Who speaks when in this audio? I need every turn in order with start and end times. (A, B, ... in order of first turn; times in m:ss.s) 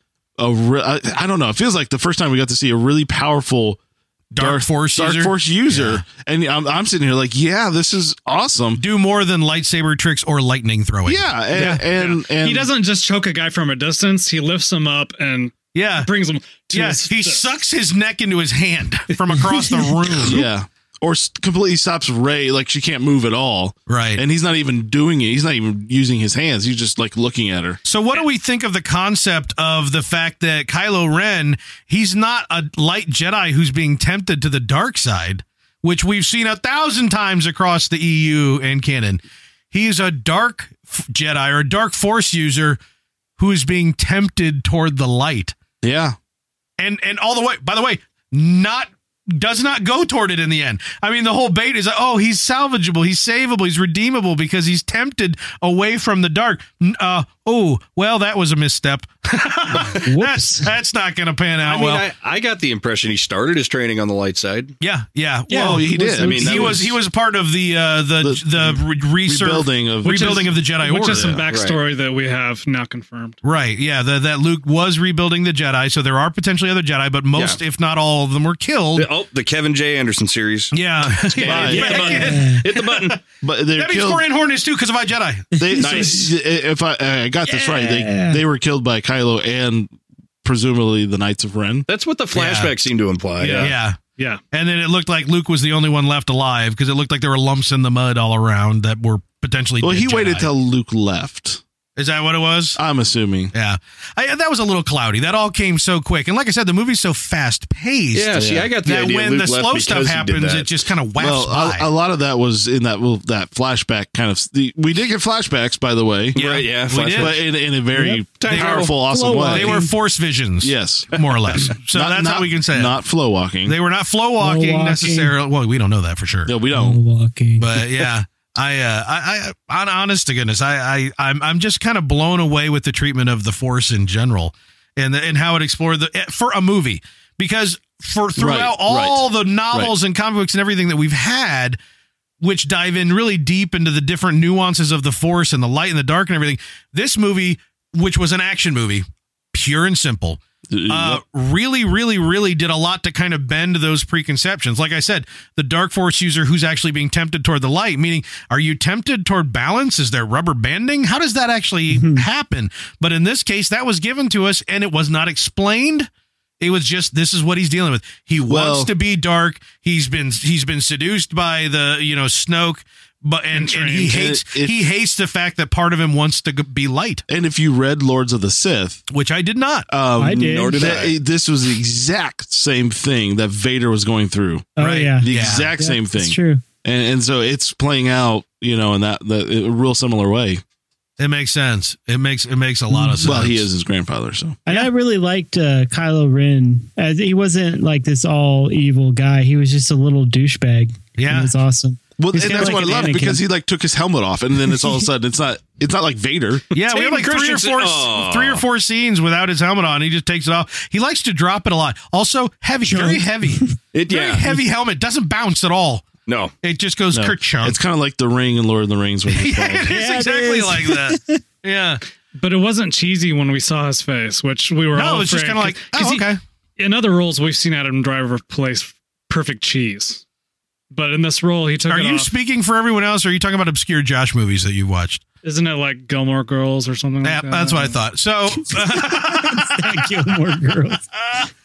0:00.4-0:03.8 A
0:04.3-0:06.0 B
0:04.4-0:08.8 A
0:08.8-0:11.8 B
0:11.0-0:12.7 A
0:11.6-0:17.5 C
0:15.7-0:16.1 B
0:16.7-0:20.4 B
0:20.2-0:27.8 A
0:23.9-0:24.2 B
0:27.8-0:42.8 B
0:43.4-0:45.5 B
0:45.8-0:46.2 A
0:46.8-1:02.1 B
1:00.0-1:00.7 D
1:01.6-1:04.8 E
1:04.8-1:11.4 B
1:05.5-1:06.5 D
1:05.5-1:07.0 A
1:06.2-1:06.8 E
1:08.2-1:10.5 A
1:10.0-1:13.4 C
1:11.0-1:11.4 A
1:11.5-1:11.8 E
1:13.4-1:19.1 B
1:17.3-1:17.6 E
1:18.9-1:23.2 E
1:20.7-1:23.2 B
1:21.4-1:22.1 A
1:21.8-1:22.6 D
1:23.4-1:24.2 A
1:23.8-1:25.6 B
1:25.6-1:26.0 D
1:25.6-1:31.9 A
1:25.8-1:26.3 E
1:27.4-1:28.4 D
1:31.9-1:33.7 E
1:32.3-1:32.8 B
1:33.4-1:34.4 C
1:33.5-1:34.0 B
1:34.5-1:40.5 B
1:39.8-1:41.6 A
1:42.0-1:42.8 B
1:42.8-1:43.5 A
1:43.5-1:51.9 B
1:48.1-1:50.7 E
1:48.3-1:48.7 A
1:51.2-1:56.4 A
1:56.3-1:57.4 E
1:56.4-1:57.4 B
1:57.1-1:59.8 A
1:57.9-1:58.2 D
1:58.4-1:58.9 E
1:58.5-1:58.9 B
1:59.0-1:59.9 D
1:59.5-2:02.9 B
2:00.6-2:03.8 A
2:03.6-2:06.5 B
2:04.4-2:05.3 D
2:06.5-2:07.0 A
2:06.7-2:07.8 D
2:07.6-2:21.8 B
2:18.4-2:19.1 A
2:22.4-2:46.1 B
2:30.7-2:31.2 A
2:41.9-2:42.2 D
2:46.6-2:57.2 B
2:48.5-2:48.9 A
2:53.5-2:54.2 C
2:54.1-2:54.8 A
2:57.3-2:59.0 A
2:59.1-2:59.9 B
2:59.9-3:10.6 A
3:00.2-3:00.9 D
3:00.4-3:01.2 E
3:04.8-3:06.6 D
3:04.8-3:05.7 B
3:11.2-3:13.6 B
3:12.9-3:13.2 D
3:13.2-3:14.6 A
3:14.7-3:23.4 D
3:21.2-3:21.5 B
3:22.2-3:26.6 A
3:22.6-3:23.0 B
3:26.7-3:37.8 B
3:26.7-3:28.6 E
3:32.8-3:33.7 D
3:33.9-3:34.4 E
3:36.2-3:36.5 E
3:37.1-3:39.9 A
3:39.3-3:42.0 B
3:39.9-3:41.4 D
3:42.4-3:46.3 C
3:44.9-3:46.4 B
3:46.8-3:50.2 C
3:50.9-3:52.3 C
3:51.9-3:55.2 B
3:55.4-3:58.0 C
3:57.2-4:00.2 B
3:58.7-4:01.0 D